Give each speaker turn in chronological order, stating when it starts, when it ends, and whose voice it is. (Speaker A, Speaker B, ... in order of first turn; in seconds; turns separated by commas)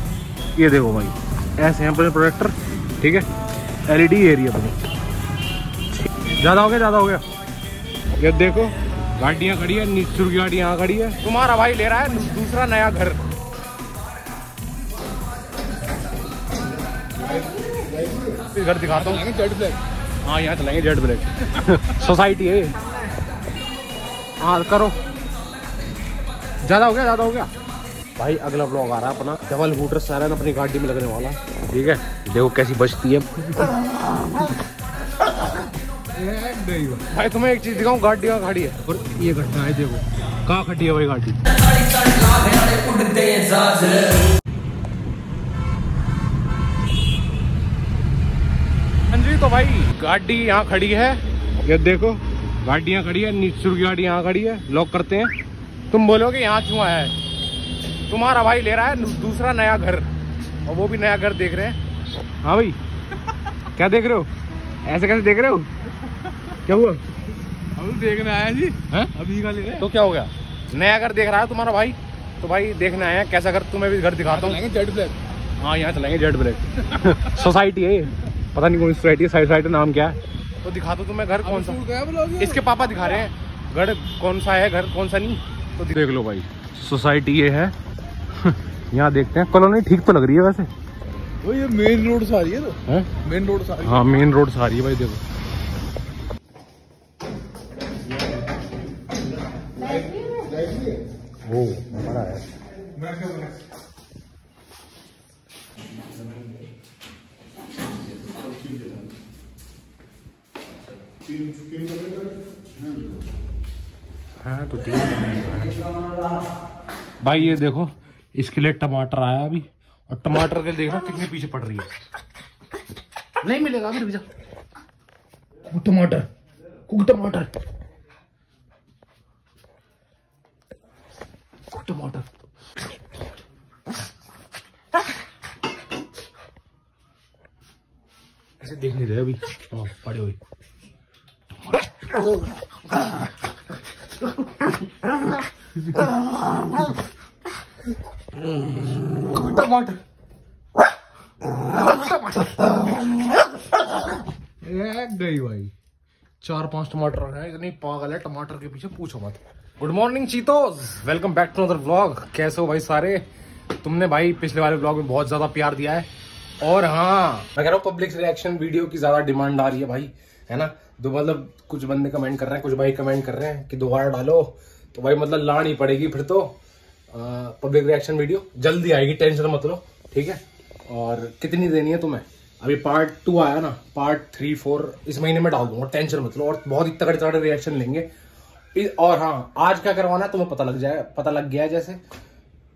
Speaker A: 0.6-3.2, Speaker A: 3.9-4.8, Speaker A: 6.4-7.2, Speaker A: 8.2-13.3, Speaker B: 17.2-18.4, Speaker A: 18.4-19.3, Speaker B: 19.1-19.8, Speaker A: 20.2-22.8, Speaker A: 24.4-25.0, Speaker A: 26.6-27.5, Speaker A: 28.2-34.4, Speaker A: 36.1-41.4, Speaker B: 42.3-44.1, Speaker A: 49.1-55.3, Speaker A: 55.9-57.1, Speaker A: 58.1-60.1, Speaker A: 60.6-61.8, Speaker A: 62.4-62.8, Speaker A: 63.7-64.3, Speaker A: 64.8-65.7, Speaker A: 66.5-67.0, Speaker B: 67.8-69.8, Speaker A: 68.9-69.2, Speaker A: 69.7-74.6, Speaker B: 74.3-75.2, Speaker A: 75.6-87.7, Speaker B: 81.6-82.5, Speaker A: 88.3-90.7, Speaker B: 91.4-94.0, Speaker A: 92.8-93.1, Speaker A: 93.8-95.2, Speaker B: 99.8-101.0, Speaker A: 101.4-102.5, Speaker A: 114.4-115.8, Speaker A: 117.2-121.9, Speaker A: 123.4-124.2, Speaker A: 125.7-126.3, Speaker A: 126.9-127.5, Speaker A: 131.7-132.3, Speaker A: 138.6-140.4, Speaker A: 148.9-150.0, Speaker A: 151.8-153.0, Speaker A: 154.6-155.7, Speaker A: 156.4-163.2, Speaker A: 163.8-166.1, Speaker A: 166.6-176.6, Speaker A: 177.1-188.1, Speaker A: 188.7-192.0